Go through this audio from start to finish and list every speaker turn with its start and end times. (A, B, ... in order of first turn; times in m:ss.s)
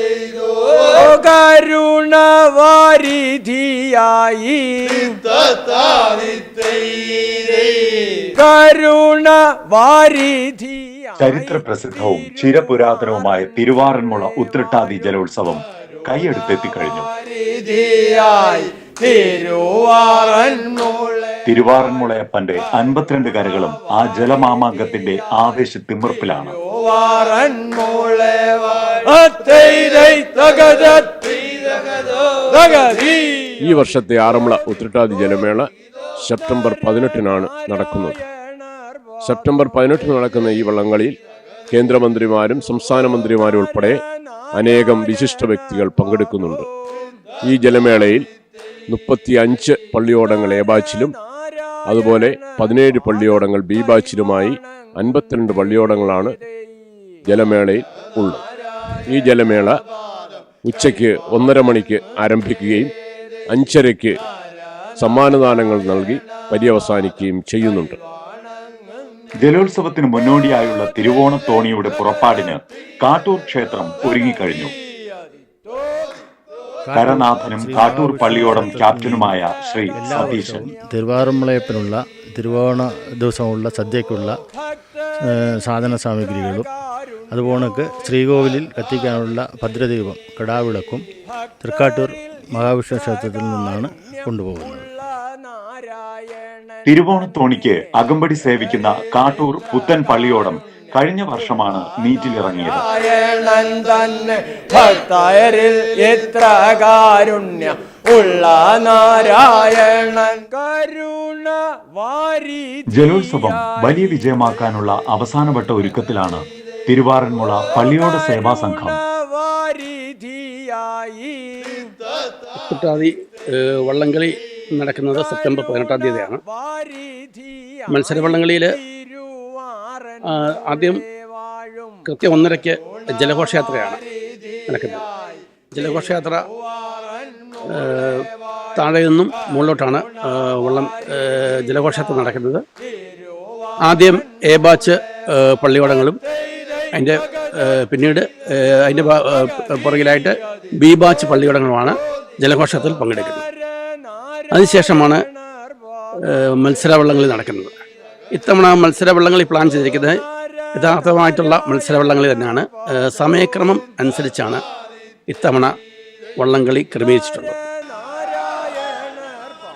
0:00.8-0:05.2 A
0:08.2-0:11.0 A
0:11.2-0:17.1 B
0:17.2-0:21.2 A
0:21.4-0:26.6 B
0:26.7-0:33.5 A
0:33.6-0:35.7 C
0:36.2-0:38.2 C
0:39.2-0:41.1 C
0:41.7-0:44.0 C
0:44.5-0:46.7 C
0:47.4-0:48.2 C
0:48.9-0:51.2 C
0:51.9-0:56.4 C
0:57.3-0:58.4 C
0:59.1-0:59.7 C
1:00.6-1:02.9 C
1:03.5-1:04.2 C
1:05.0-1:08.0 C
1:09.4-1:14.7 B
1:16.9-1:19.4 D
1:16.9-1:20.7 B
1:19.9-1:24.4 D
1:25.2-1:26.7 D
1:27.3-1:31.1 D
1:31.6-1:35.0 D
1:36.8-1:42.8 B
1:43.0-1:53.6 A
1:52.9-1:59.0 B
1:59.6-2:01.9 A
2:02.6-2:06.4 E
2:07.9-2:08.7 E
2:10.2-2:11.0 E
2:12.0-2:14.0 E
2:14.7-2:15.0 E
2:15.7-2:16.4 E
2:17.7-2:22.6 E
2:23.8-2:26.2 E
2:26.9-2:33.4 E
2:34.5-2:35.2 E
2:36.2-2:37.8 E
2:38.3-2:40.2 E
2:40.7-2:44.6 E
2:45.3-2:45.7 E
2:46.4-2:47.6 E
2:48.3-2:49.4 A